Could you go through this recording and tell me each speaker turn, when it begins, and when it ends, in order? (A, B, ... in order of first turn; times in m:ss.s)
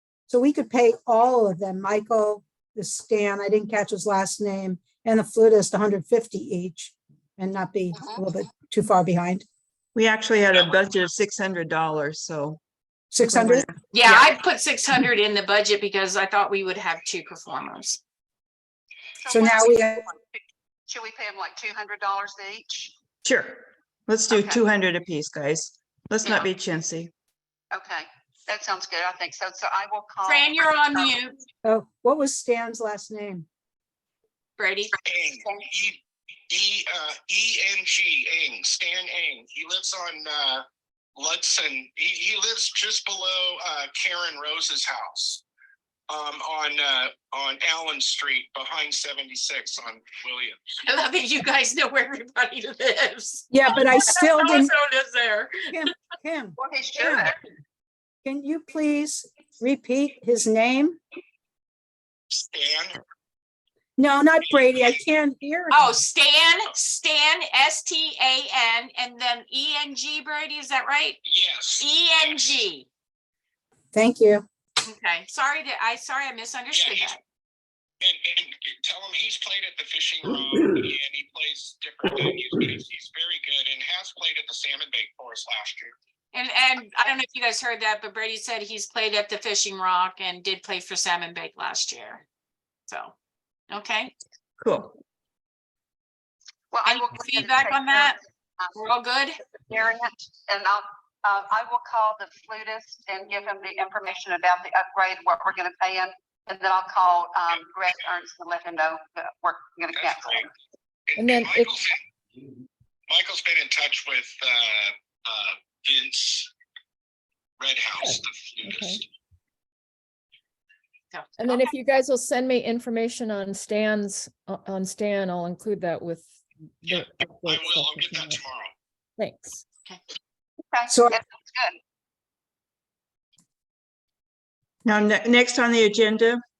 0:00.3-0:09.4 A
0:08.0-0:08.2 B
0:10.0-0:12.6 C
0:13.1-0:13.7 A
0:13.3-0:14.3 C
0:13.9-0:18.0 D
0:19.2-0:22.9 B
0:19.3-0:20.0 A
0:23.2-0:27.1 C
0:24.3-0:24.6 B
0:27.7-0:30.5 B
0:30.3-0:31.4 D
0:31.6-0:33.5 A
0:34.6-0:34.9 D
0:35.1-0:36.0 E
0:35.3-0:35.6 B
0:36.5-0:40.6 E
0:41.2-0:45.4 E
0:46.1-0:50.6 E
0:50.8-0:55.7 D
0:53.5-0:54.7 A
0:55.7-0:57.3 A
0:56.6-0:57.4 B
0:58.2-1:01.0 A
1:02.3-1:03.0 E
1:04.0-1:05.9 A
1:04.8-1:05.0 E
1:05.7-1:11.2 D
1:11.2-1:12.6 E
1:11.8-1:12.9 D
1:13.9-1:14.5 A
1:14.8-1:17.2 D
1:16.7-1:17.2 E
1:18.0-1:26.0 E
1:26.3-1:32.2 D
1:32.9-1:33.1 D
1:33.7-1:34.1 D
1:34.6-1:35.0 C
1:36.7-1:38.8 B
1:36.9-1:38.2 D
1:38.8-1:39.4 D
1:39.7-1:50.5 B
1:50.0-1:50.5 E
1:51.1-1:52.0 E
1:51.2-1:51.8 F
1:53.1-1:56.5 E
1:57.6-1:59.0 E
1:58.0-1:59.0 F
2:01.1-2:01.6 D
2:01.4-2:08.4 F
2:06.9-2:08.7 E
2:09.2-2:09.6 F
2:10.7-2:11.8 B
2:10.9-2:11.2 A
2:14.8-2:16.4 C